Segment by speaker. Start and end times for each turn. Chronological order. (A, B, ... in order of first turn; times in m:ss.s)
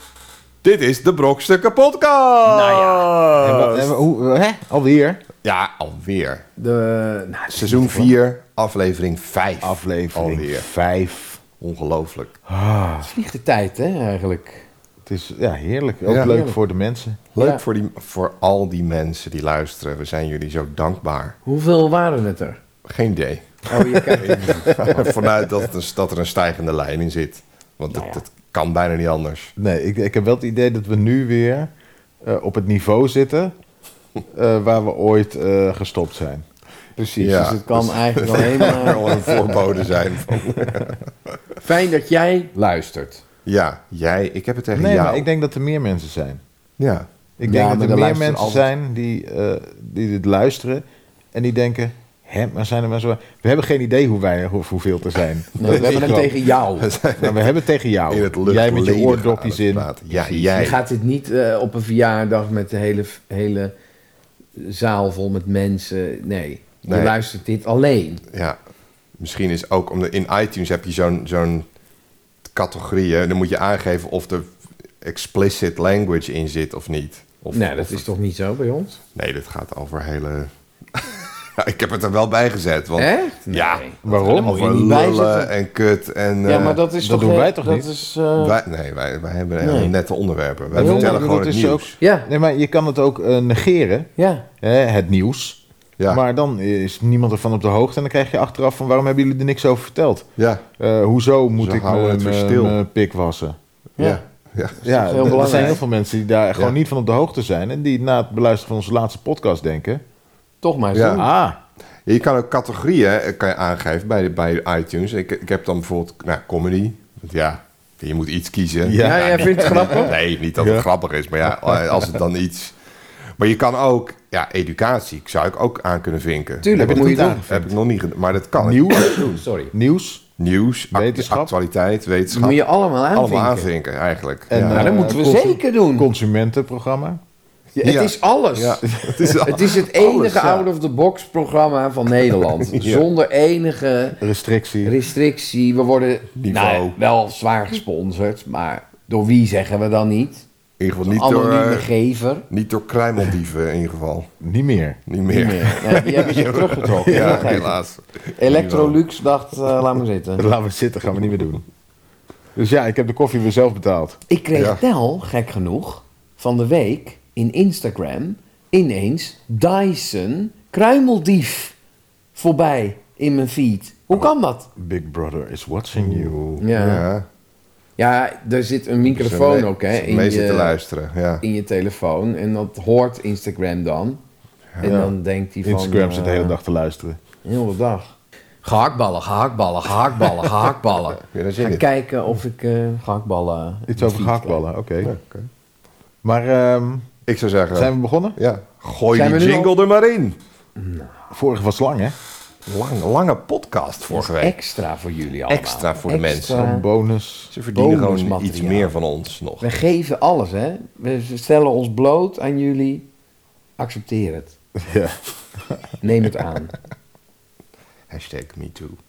0:00.6-0:03.9 A
0:02.4-0:03.2 B
0:03.4-0:05.2 C
0:05.4-0:06.4 A
0:06.6-0:08.1 B
0:07.5-0:10.6 A
0:09.6-0:11.4 C
0:11.6-0:12.3 A
0:12.5-0:13.1 C
0:13.0-0:14.7 B
0:15.0-0:17.2 C
0:16.0-0:16.4 A
0:16.1-0:16.6 B
0:17.3-0:21.4 A
0:21.4-0:22.6 B
0:22.8-0:29.5 A
0:23.7-0:25.1 B
0:27.9-0:28.2 B
0:29.6-0:31.7 C
0:32.2-0:33.5 C
0:34.3-0:36.4 C
0:37.0-0:39.6 B
0:37.2-0:41.0 A
0:41.6-0:43.2 B
0:43.4-0:45.2 A
0:44.7-0:46.4 C
0:46.8-0:47.1 A
0:47.4-0:56.4 C
0:47.4-0:48.7 B
0:55.6-0:56.9 B
0:55.6-0:57.5 A
0:57.2-1:00.7 C
0:58.1-1:00.8 A
1:00.5-1:03.7 B
1:04.5-1:08.2 B
1:06.9-1:07.1 A
1:08.3-1:08.6 A
1:09.2-1:11.6 A
1:12.5-1:14.4 A
1:15.0-1:18.0 A
1:17.5-1:19.0 B
1:19.1-1:26.8 A
1:23.0-1:25.5 B
1:24.0-1:25.1 C
1:26.4-1:28.6 B
1:26.9-1:27.9 C
1:28.4-1:32.0 A
1:29.6-1:29.9 B
1:30.7-1:34.1 C
1:30.8-1:31.2 B
1:32.0-1:32.3 B
1:34.2-1:34.4 B
1:34.6-1:43.6 C
1:40.4-1:40.6 A
1:41.6-1:42.8 A
1:44.0-1:45.8 A
1:44.8-1:45.8 B
1:44.8-1:50.0 C
1:50.6-1:51.3 B
1:50.9-1:51.2 A
1:51.2-1:51.6 C
1:52.0-2:02.7 A
1:58.8-2:00.8 C
1:59.0-2:00.2 B
2:03.4-2:09.2 A
2:06.6-2:07.4 B
2:06.7-2:07.7 C
2:08.6-2:10.2 C
2:08.9-2:09.7 B
2:10.4-2:14.9 A
2:10.9-2:11.5 C
2:12.3-2:13.7 B
2:14.5-2:17.2 C
2:14.7-2:16.1 B
2:17.8-2:24.2 B
2:17.8-2:20.6 A
2:22.6-2:23.0 A
2:24.2-2:25.0 C
2:24.8-2:30.4 B
2:26.4-2:27.0 A
2:30.8-2:31.9 A
2:31.0-2:32.4 B
2:32.5-2:34.3 A
2:34.4-2:35.0 C
2:35.1-2:39.0 A
2:35.2-2:37.7 B
2:37.0-2:37.7 C
2:38.4-2:40.4 B
2:40.4-2:41.6 C
2:42.6-2:44.2 C
2:44.3-2:51.7 B
2:44.5-2:44.8 A
2:52.3-2:54.7 B
2:54.8-2:56.3 C
2:56.0-2:57.2 A
2:56.6-2:57.0 B
2:58.0-3:00.8 B
2:59.0-3:01.4 A
3:01.4-3:04.2 B
3:04.8-3:06.6 B
3:04.8-3:05.1 C
3:05.6-3:07.2 C
3:07.4-3:14.6 B
3:11.2-3:11.8 A
3:13.9-3:15.1 C
3:15.0-3:15.5 A
3:16.2-3:17.1 C
3:17.2-3:20.4 A
3:17.7-3:18.4 C
3:19.1-3:19.7 B
3:20.8-3:21.1 B
3:21.3-3:22.1 C
3:22.6-3:24.5 A
3:24.1-3:26.8 B
3:25.5-3:26.6 A
3:26.5-3:27.5 C
3:27.5-3:29.7 A
3:27.7-3:28.9 B
3:29.6-3:33.0 B
3:33.8-3:34.6 B
3:34.8-3:35.8 C
3:36.0-3:36.7 B
3:38.1-3:39.0 A